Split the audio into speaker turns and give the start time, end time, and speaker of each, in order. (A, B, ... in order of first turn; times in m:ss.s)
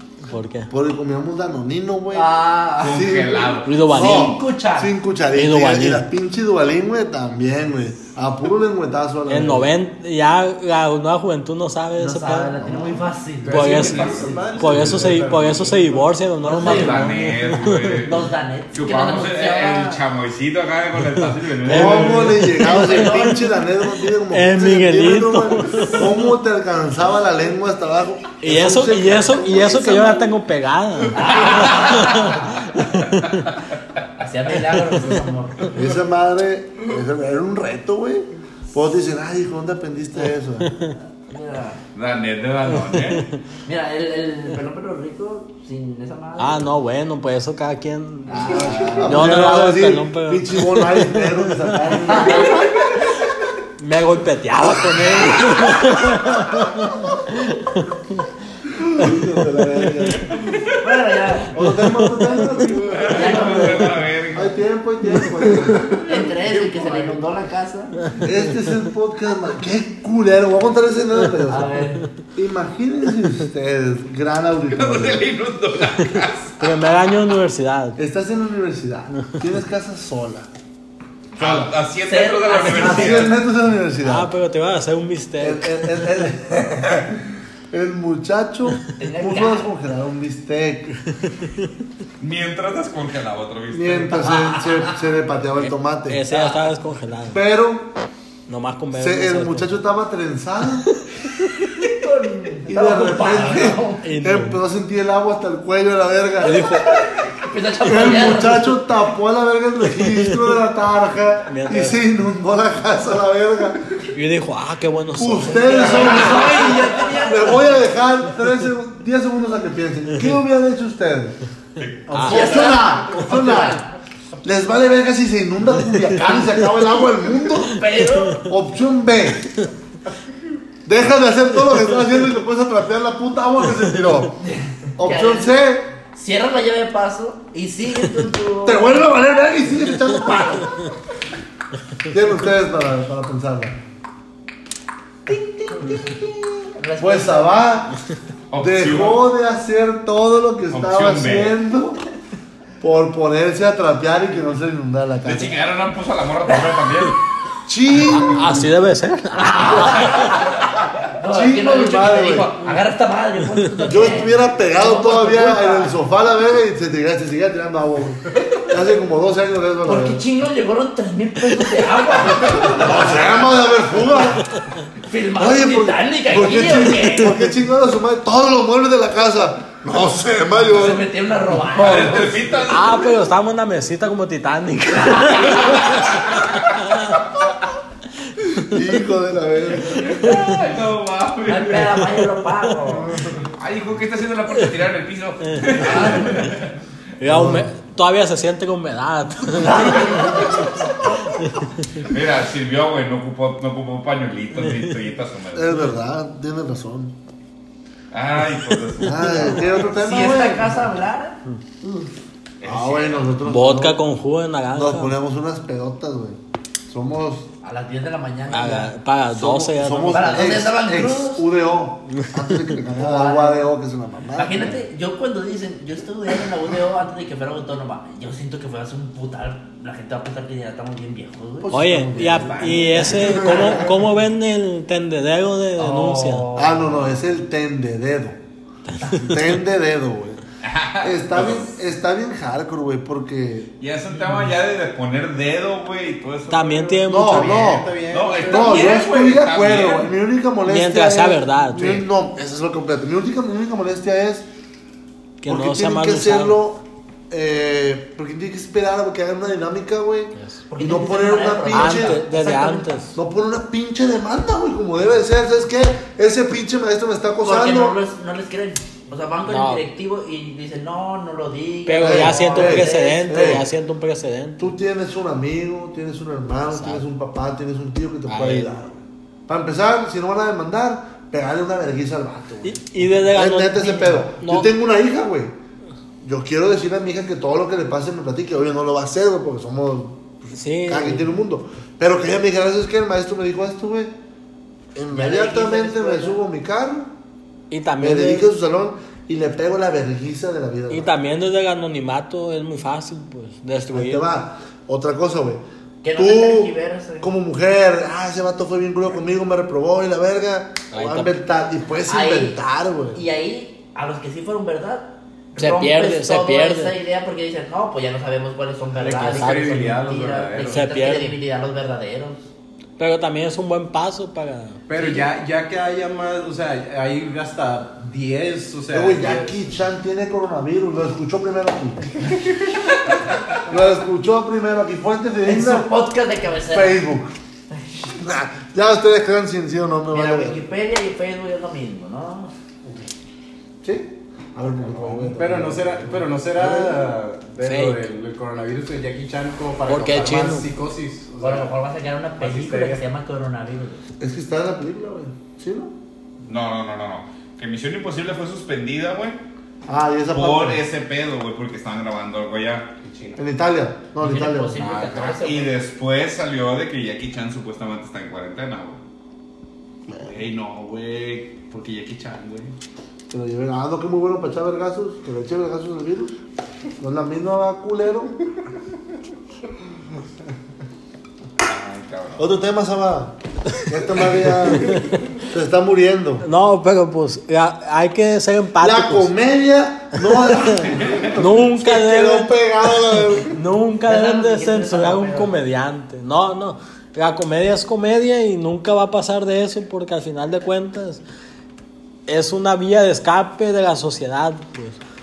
0:00.3-0:00.7 A
0:00.7-0:02.3 B
0:02.1-0:04.9 C
0:02.8-0:03.8 D
0:02.9-0:09.7 B
0:03.6-0:04.4 A
0:05.3-0:06.0 A
0:09.3-0:12.6 A
0:12.0-0:14.2 C
0:12.6-0:13.0 B
0:13.4-0:16.1 E
0:13.5-0:18.1 A
0:13.6-0:14.9 D
0:16.4-0:17.1 C
0:16.5-0:18.2 D
0:18.0-0:20.0 C
0:18.7-0:22.3 D
0:21.6-0:23.4 A
0:21.7-0:30.3 B
0:22.5-0:23.5 C
0:24.3-0:26.1 A
0:28.4-0:33.5 A
0:31.1-0:32.7 C
0:34.2-0:35.8 C
0:34.6-0:35.7 A
0:35.7-0:40.8 B
0:40.6-0:40.9 A
0:41.2-0:41.8 C
0:41.9-0:43.3 D
0:42.7-0:43.4 A
0:43.6-0:46.7 C
0:46.4-0:51.9 A
0:48.3-0:49.3 C
0:48.5-0:52.6 B
0:52.1-0:52.7 C
0:53.8-0:58.2 A
0:58.7-1:00.3 B
1:00.8-1:01.5 C
1:01.5-1:03.6 B
1:01.6-1:02.7 A
1:02.8-1:04.5 D
1:03.1-1:03.9 C
1:04.3-1:05.9 B
1:06.0-1:08.0 C
1:06.6-1:07.2 E
1:08.2-1:11.8 B
1:11.5-1:12.1 C
1:12.3-1:15.2 B
1:14.7-1:16.6 D
1:16.6-1:18.0 A
1:18.0-1:20.5 B
1:19.1-1:19.4 A
1:21.4-1:23.4 D
1:21.4-1:23.3 C
1:22.7-1:24.3 B
1:24.0-1:26.1 A
1:25.4-1:30.9 B
1:29.0-1:29.7 C
1:31.1-1:31.7 A
1:32.2-1:34.3 D
1:33.7-1:36.2 B
1:34.2-1:34.9 C
1:35.6-1:37.4 A
1:36.3-1:36.6 C
1:37.3-1:37.9 B
1:38.5-1:39.8 A
1:38.9-1:40.9 B
1:41.8-1:44.0 C
1:42.7-1:46.7 B
1:44.0-1:44.6 A
1:46.4-1:47.0 A
1:47.3-1:48.7 C
1:47.8-1:53.8 B
1:49.9-1:50.4 A
1:51.5-1:52.0 A
1:54.1-1:56.3 A
1:55.2-2:01.4 B
1:55.4-1:57.7 C
2:01.8-2:02.0 D
2:02.1-2:03.8 B
2:02.1-2:02.7 A
2:02.2-2:03.9 C
2:04.4-2:09.5 B
2:06.2-2:06.8 C
2:07.6-2:08.4 C
2:07.9-2:08.4 A
2:10.8-2:14.4 B
2:14.4-2:15.6 C
2:15.0-2:15.9 B
2:16.1-2:19.2 C
2:18.6-2:20.7 B
2:22.1-2:23.8 B
2:25.3-2:27.7 C
2:27.0-2:28.0 B
2:28.5-2:29.2 D
2:28.6-2:32.0 B
2:30.7-2:31.6 D
2:32.8-2:35.5 B
2:35.2-2:37.2 D
2:37.7-2:38.7 B
2:38.1-2:40.3 A
2:39.3-2:40.4 C
2:41.1-2:46.0 C
2:41.3-2:42.5 B
2:43.9-2:50.2 B
2:49.8-2:53.3 C
2:52.5-2:54.4 B
2:55.0-2:57.4 C
2:55.4-3:01.1 B
3:00.6-3:02.4 C
3:01.8-3:02.6 B
3:01.8-3:03.1 D
3:02.7-3:07.2 A
3:04.9-3:05.8 C
3:06.0-3:06.7 D
3:08.7-3:10.2 B
3:09.9-3:12.0 D
3:10.2-3:10.5 A
3:11.4-3:13.2 C
3:12.8-3:13.5 B
3:13.6-3:16.8 D
3:15.6-3:16.5 A
3:15.8-3:16.5 C
3:17.2-3:20.6 A
3:17.2-3:17.7 B
3:19.6-3:20.5 C
3:21.4-3:22.0 A
3:22.0-3:25.7 D
3:25.5-3:27.2 B
3:28.1-3:29.8 D
3:29.0-3:30.8 B
3:29.2-3:29.5 A
3:29.8-3:32.0 C
3:32.6-3:33.4 D
3:32.6-3:34.0 B
3:33.4-3:35.1 A
3:34.7-3:37.5 B
3:37.6-3:38.9 C
3:38.5-3:40.6 A
3:39.3-3:44.8 B
3:40.1-3:41.4 C
3:42.9-3:43.7 C
3:44.3-3:53.9 C
3:51.6-3:53.8 B
3:51.7-3:56.6 A
3:55.8-3:57.1 C
3:56.6-3:58.4 B
3:58.9-3:59.4 A
3:59.2-4:00.4 B
4:00.6-4:01.7 D
4:01.0-4:03.7 B
4:03.8-4:07.0 D
4:06.5-4:07.7 A
4:07.1-4:14.4 B
4:07.1-4:09.0 E
4:08.1-4:10.1 D
4:10.6-4:12.0 A
4:15.4-4:16.6 A
4:15.4-4:22.2 B
4:20.7-4:22.9 C
4:21.7-4:23.2 A
4:23.1-4:28.0 B
4:27.4-4:33.6 C
4:29.4-4:29.8 A
4:31.8-4:34.7 A
4:32.0-4:33.7 B
4:34.6-4:45.5 B
4:36.7-4:37.0 A
4:38.3-4:38.7 A
4:42.6-4:44.7 A
4:46.2-4:54.1 B
4:50.5-4:51.3 A
4:54.9-4:57.1 B
4:55.1-4:56.4 C
4:57.7-4:58.5 A
4:58.0-5:01.1 B
5:00.9-5:04.3 A
5:03.9-5:05.6 B
5:06.0-5:07.3 C
5:06.1-5:13.2 B
5:10.9-5:11.3 A
5:12.1-5:12.6 C
5:13.1-5:22.5 C
5:15.6-5:17.0 A
5:19.0-5:20.9 E
5:19.2-5:20.0 A
5:20.6-5:21.4 A
5:23.0-5:24.8 A
5:24.9-5:29.6 E
5:25.0-5:25.3 C
5:28.9-5:32.1 B
5:33.6-5:35.9 B
5:35.4-5:37.0 C
5:36.7-5:37.3 B
5:38.2-5:40.6 B
5:40.1-5:42.5 C
5:43.8-5:47.1 B
5:44.9-5:51.7 E
5:47.6-5:48.0 A
5:49.9-5:50.7 A
5:51.4-5:54.0 C
5:52.4-5:53.0 E
5:54.2-5:55.9 B
5:56.4-5:59.4 D
5:59.9-6:00.8 B
6:00.3-6:02.9 D
6:03.0-6:03.4 E
6:03.4-6:05.0 B
6:04.2-6:05.7 C
6:04.8-6:09.0 D
6:10.1-6:10.3 B
6:10.2-6:12.7 D
6:13.3-6:16.4 B
6:17.0-6:18.4 B
6:21.6-6:22.5 D
6:22.4-6:26.5 B
6:24.8-6:25.2 A
6:26.4-6:29.3 A
6:28.8-6:33.6 B
6:30.3-6:41.2 A
6:30.8-6:31.3 D
6:34.0-6:35.5 C
6:42.3-6:45.0 A